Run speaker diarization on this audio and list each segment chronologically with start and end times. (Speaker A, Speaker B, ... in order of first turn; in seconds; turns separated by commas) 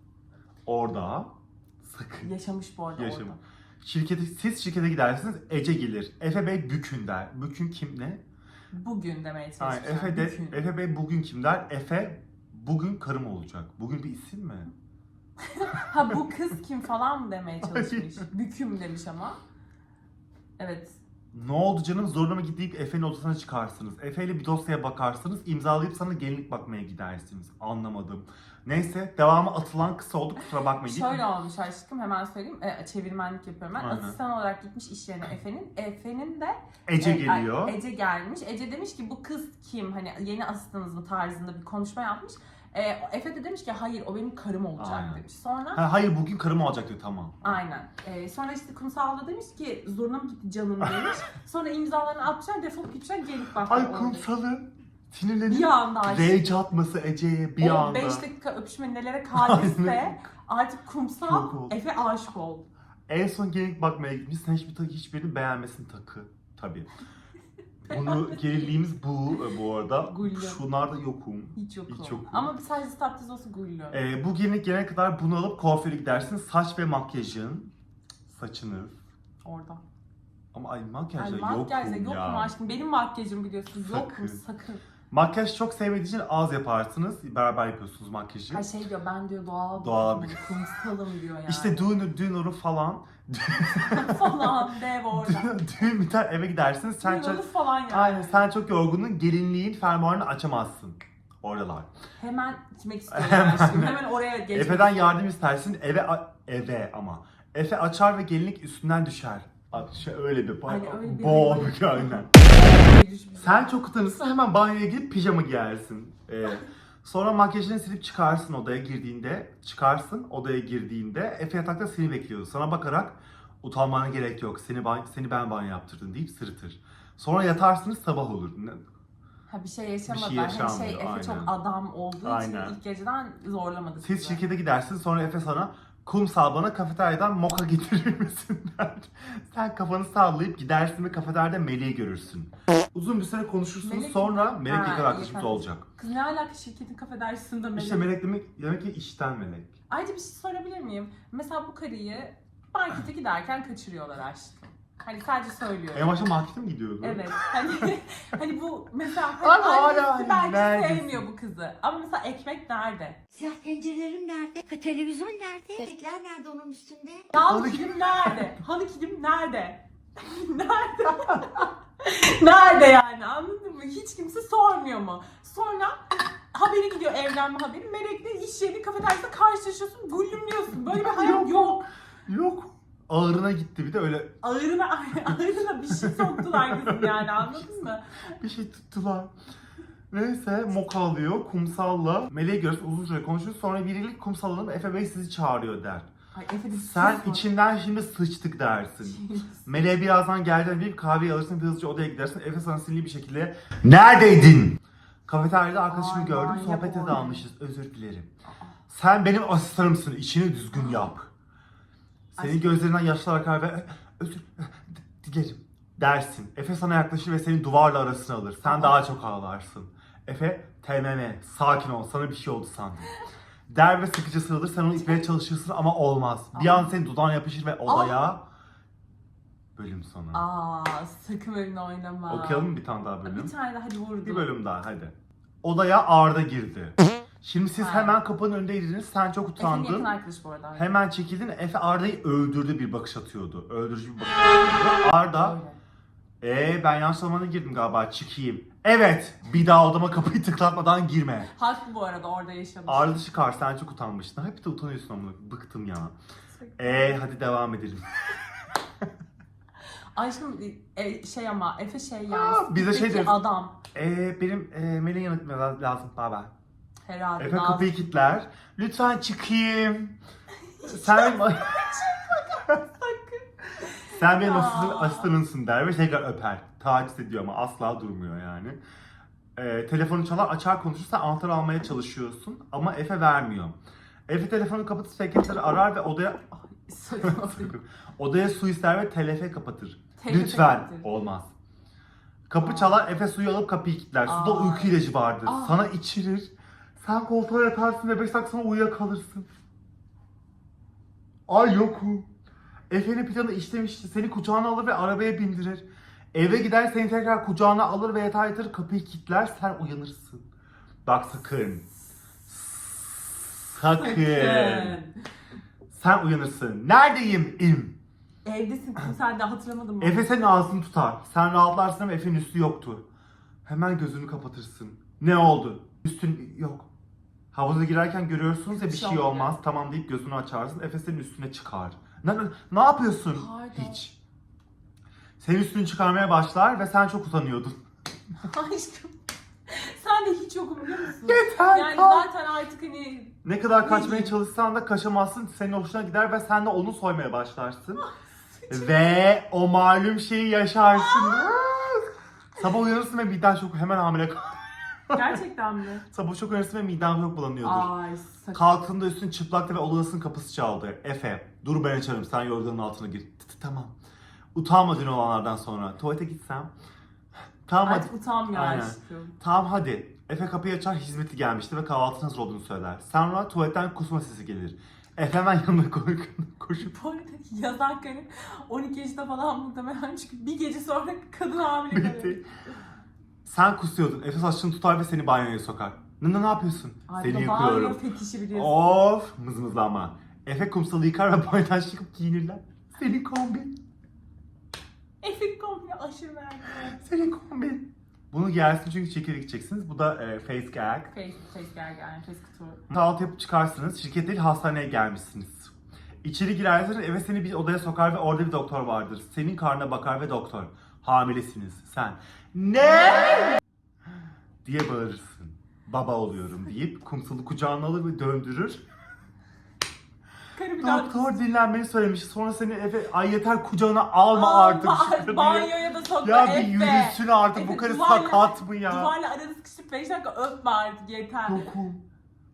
Speaker A: 0.7-1.3, Speaker A: 1.8-2.3, Speaker B: 2.2-3.4, Speaker A: 3.0-8.2, Speaker B: 8.7-10.7, Speaker A: 9.6-14.7, Speaker B: 15.4-19.4, Speaker A: 17.6-18.3, Speaker B: 20.6-21.0, Speaker A: 21.3-31.2, Speaker B: 30.9-45.8, Speaker A: 33.8-34.2, Speaker A: 36.9-37.8, Speaker A: 44.8-47.6, Speaker B: 47.4-54.3, Speaker A: 53.7-58.2, Speaker B: 55.5-56.6, Speaker B: 57.6-62.7, Speaker A: 59.3-60.3, Speaker A: 61.2-61.8, Speaker A: 63.1-66.9, Speaker A: 67.8-72.5, Speaker B: 67.9-68.8, Speaker B: 70.0-70.6, Speaker B: 71.6-74.0, Speaker A: 73.9-77.7, Speaker A: 78.3-79.0, Speaker B: 79.4-79.8, Speaker A: 80.5-82.5, Speaker B: 81.2-84.8, Speaker A: 83.7-84.4, Speaker A: 85.1-88.7, Speaker B: 88.5-92.0, Speaker A: 89.8-90.6, Speaker A: 91.5-94.6, Speaker B: 93.7-95.9, Speaker A: 95.1-101.9, Speaker B: 97.0-98.4, Speaker B: 102.2-105.2, Speaker A: 103.1-104.0, Speaker A: 104.5-112.3, Speaker B: 110.7-113.8, Speaker A: 113.4-128.8, Speaker B: 129.5-134.4, Speaker A: 130.1-131.5, Speaker A: 132.2-132.8, Speaker A: 134.0-145.8, Speaker B: 143.8-148.1, Speaker A: 147.8-149.7, Speaker B: 149.9-156.2, Speaker A: 155.9-157.4, Speaker B: 157.0-163.2, Speaker A: 159.4-161.2, Speaker C: 163.3-167.3, Speaker B: 167.3-181.9, Speaker A: 167.5-168.5, Speaker A: 180.9-181.7, Speaker A: 182.3-184.3, Speaker B: 184.4-188.1, Speaker A: 186.0-187.8, Speaker A: 188.4-189.3, Speaker A: 190.1-196.1, Speaker B: 196.3-197.5, Speaker A: 196.7-208.3, Speaker B: 199.0-199.6, Speaker B: 205.9-207.4, Speaker B: 208.5-208.7, Speaker A: 208.9-211.3, Speaker B: 210.7-211.1, Speaker A: 212.3-223.2, Speaker B: 212.4-212.9, Speaker B: 218.7-219.0, Speaker A: 223.7-228.5, Speaker B: 225.0-225.3, Speaker B: 226.5-227.0, Speaker B: 227.9-228.3, Speaker A: 229.8-230.4, Speaker B: 230.3-232.7, Speaker A: 232.3-233.5, Speaker B: 233.2-234.5, Speaker A: 234.2-240.1, Speaker B: 237.8-238.2, Speaker B: 239.6-241.0, Speaker A: 240.8-245.6, Speaker B: 245.3-245.8, Speaker A: 246.4-251.5, Speaker B: 251.5-253.2, Speaker A: 252.9-256.2, Speaker B: 256.6-257.2, Speaker A: 256.8-258.1, Speaker B: 260.1-263.8, Speaker A: 262.3-263.4, Speaker A: 263.9-266.5, Speaker B: 267.1-268.1, Speaker A: 267.4-270.2, Speaker B: 270.8-275.3, Speaker A: 270.8-272.8, Speaker A: 273.9-278.8, Speaker A: 279.6-283.8, Speaker A: 284.3-286.4, Speaker B: 286.7-287.8, Speaker A: 287.2-291.5, Speaker B: 290.2-291.1, Speaker A: 292.5-299.5, Speaker B: 292.6-293.1, Speaker B: 294.2-295.8, Speaker A: 301.5-302.3, Speaker A: 302.9-310.5, Speaker A: 311.1-311.9, Speaker A: 312.5-315.0, Speaker B: 313.9-315.1, Speaker A: 315.9-318.0, Speaker B: 318.4-320.3, Speaker A: 320.0-323.1, Speaker A: 323.6-326.9, Speaker A: 327.5-334.1, Speaker B: 328.7-329.6, Speaker B: 333.3-334.0, Speaker A: 335.4-337.8, Speaker B: 338.4-339.2, Speaker B: 339.7-344.4, Speaker A: 341.2-342.3, Speaker A: 343.4-348.0, Speaker B: 348.0-349.0, Speaker A: 348.7-355.4, Speaker B: 350.9-351.7, Speaker B: 355.1-356.1, Speaker A: 356.1-357.9, Speaker B: 357.6-358.8, Speaker A: 358.5-363.9, Speaker A: 364.6-366.7, Speaker A: 367.7-376.9, Speaker B: 367.8-369.4, Speaker B: 376.8-382.4, Speaker A: 381.9-382.5, Speaker A: 383.4-388.0, Speaker B: 387.1-389.0, Speaker A: 388.5-393.7, Speaker B: 395.2-397.0, Speaker A: 396.9-401.1, Speaker B: 401.1-402.8, Speaker A: 402.9-413.6, Speaker A: 414.6-418.8, Speaker B: 420.6-421.3, Speaker A: 420.8-429.1, Speaker B: 424.3-431.6, Speaker A: 431.5-432.0